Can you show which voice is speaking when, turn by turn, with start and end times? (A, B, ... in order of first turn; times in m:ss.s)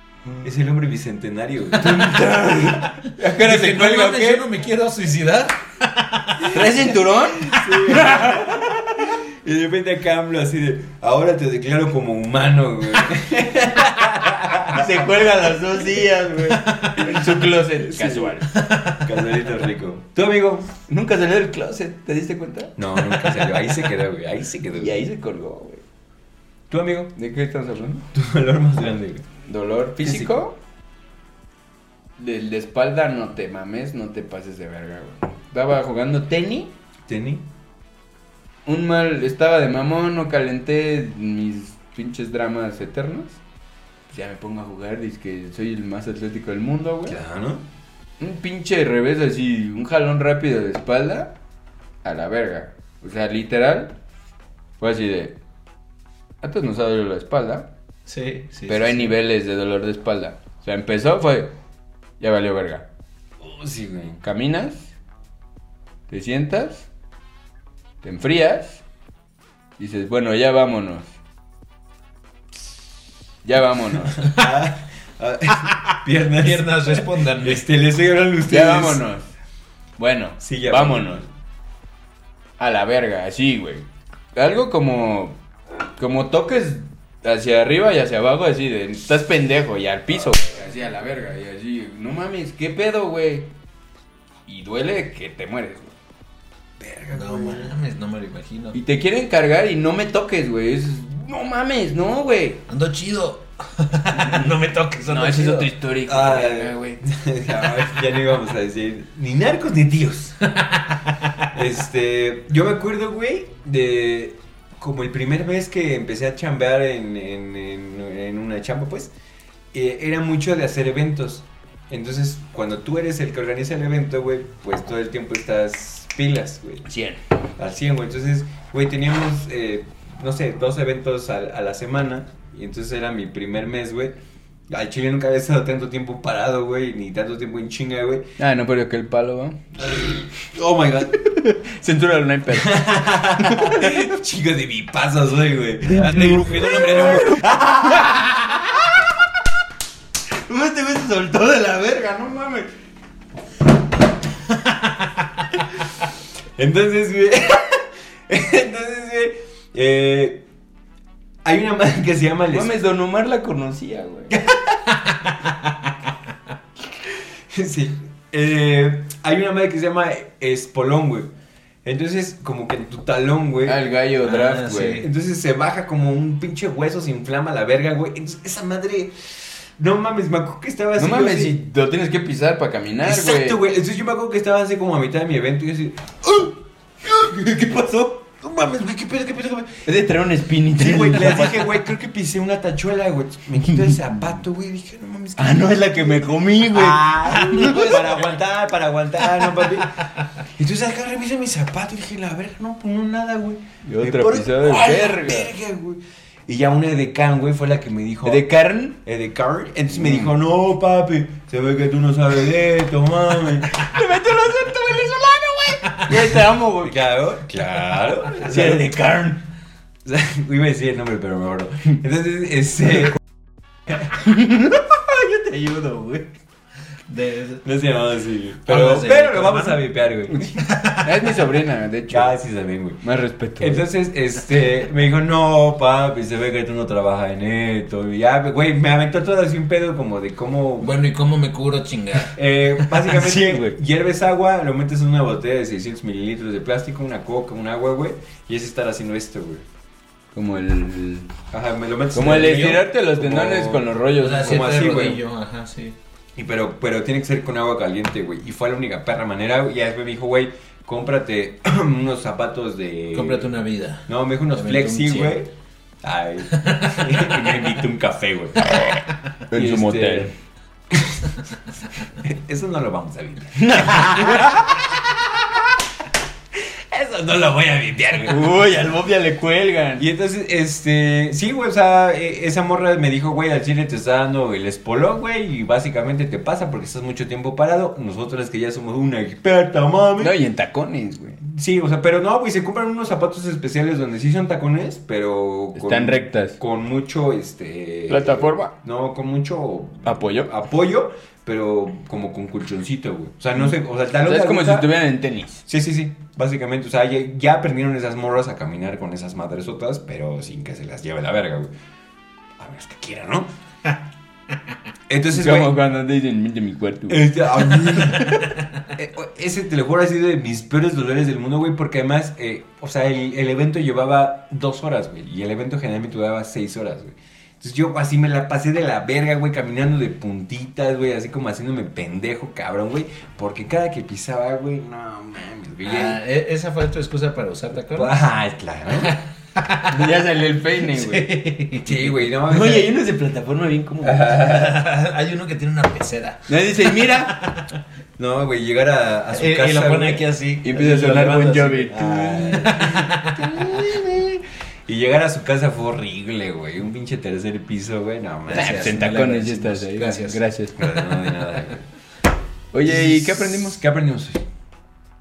0:00.4-0:02.8 A
0:01.8-0:04.4 B
0:03.1-0:06.6 C
0:06.4-0:08.8 B
0:07.3-0:15.2 A
0:14.6-0:18.5 B
0:16.7-0:17.0 C
0:17.8-0:18.4 A
0:18.5-0:19.1 C
0:19.0-0:20.7 A
0:20.9-0:23.5 B
0:22.8-0:25.1 A
0:24.7-0:25.8 B
0:26.7-0:27.1 A
0:27.2-0:28.0 B
0:28.1-0:29.2 A
0:29.5-0:30.6 B
0:30.0-0:30.4 A
0:32.2-0:36.7 B
0:37.1-0:37.4 A
0:38.7-0:43.4 B
0:44.1-0:47.2 B
0:47.1-0:47.6 A
0:48.2-0:51.3 B
0:52.0-0:54.0 B
0:54.8-0:55.4 B
0:56.4-0:57.7 B
0:58.1-0:59.2 C
0:58.7-1:01.5 B
1:02.2-1:02.8 B
1:03.4-1:04.2 A
1:04.2-1:04.9 B
1:06.1-1:06.9 B
1:08.0-1:08.8 B
1:09.8-1:11.1 B
1:13.4-1:14.3 B
1:14.2-1:19.0 A
1:15.6-1:17.7 C
1:18.5-1:19.3 B
1:20.0-1:21.2 B
1:20.4-1:21.3 A
1:22.6-1:25.4 B
1:26.0-1:33.5 B
1:34.5-1:35.9 B
1:36.8-1:37.7 A
1:37.1-1:38.8 C
1:38.8-1:42.6 B
1:42.7-1:45.7 C
1:44.1-1:44.5 B
1:45.1-1:47.0 B
1:46.0-1:50.4 A
1:50.5-1:51.5 C
1:51.5-1:59.1 A
1:59.7-2:06.9 A
2:06.9-2:07.2 B
2:07.6-2:14.2 A
2:14.7-2:18.3 A
2:18.4-2:19.6 B
2:19.8-2:21.1 A
2:21.2-2:24.1 B
2:22.5-2:28.3 A
2:26.0-2:26.4 C
2:26.8-2:28.5 B
2:30.5-2:32.7 B
2:36.6-2:40.4 A
2:41.4-2:42.7 A
2:42.5-2:44.3 B
2:44.3-2:44.8 A
2:45.0-2:45.5 C
2:47.0-2:51.3 A
2:51.8-2:53.8 A
2:53.7-2:55.0 B
2:54.2-2:55.1 C
2:55.0-3:01.6 A
3:01.0-3:03.6 B
3:03.0-3:09.9 A
3:09.9-3:11.8 B
3:10.8-3:19.9 A
3:15.4-3:18.1 B
3:17.4-3:17.9 C
3:20.0-3:20.4 C
3:20.6-3:33.8 A
3:23.8-3:25.5 B
3:28.2-3:29.0 B
3:30.0-3:30.3 B
3:33.6-3:37.0 B
3:35.9-3:36.2 C
3:36.8-3:38.9 A
3:37.6-3:39.4 B
3:40.0-3:43.2 A
3:44.2-3:46.3 B
3:47.1-3:47.6 C
3:47.6-3:50.6 A
3:48.7-3:49.8 C
3:50.3-3:52.4 B
3:50.6-3:51.5 C
3:52.1-3:53.0 A
3:53.0-3:53.9 B
3:53.6-4:00.9 A
4:00.8-4:03.7 C
4:02.3-4:09.6 A
4:10.3-4:11.3 B
4:11.5-4:15.2 A
4:12.1-4:14.7 B
4:12.2-4:12.8 C
4:14.2-4:16.0 C
4:16.4-4:23.5 A
4:23.1-4:25.4 C
4:24.1-4:25.5 A
4:26.0-4:28.8 A
4:26.5-4:27.6 C
4:29.5-4:30.3 B
4:29.5-4:30.3 A
4:30.9-4:31.3 A
4:32.2-4:35.7 A
4:33.6-4:34.6 B
4:36.5-4:38.6 A
4:38.3-4:40.1 B
4:40.0-4:50.3 A
4:50.2-4:51.4 B
4:51.4-5:04.9 A
4:55.8-4:56.6 B
4:58.1-4:58.7 B
5:00.1-5:00.5 B
5:04.2-5:05.6 B
5:05.7-5:11.7 A
5:12.6-5:13.5 A
5:15.1-5:15.8 A
5:15.3-5:18.4 B
5:17.1-5:18.4 A
5:18.6-5:18.9 C
5:19.0-5:36.2 A
5:35.8-5:38.2 C
5:38.0-5:39.1 A
5:39.0-5:40.1 C
5:39.9-5:41.3 B
5:40.8-5:42.2 C
5:41.8-5:42.9 A
5:42.5-5:44.4 B
5:44.0-5:44.8 A
5:44.4-5:47.7 C
5:46.5-5:47.3 B
5:48.2-5:50.3 A
5:49.3-5:53.4 C
5:50.6-5:52.7 B
5:51.9-5:58.9 A
5:58.5-6:00.4 C
5:58.5-6:00.8 B
6:00.8-6:01.9 A
6:02.7-6:03.8 B
6:02.8-6:04.4 A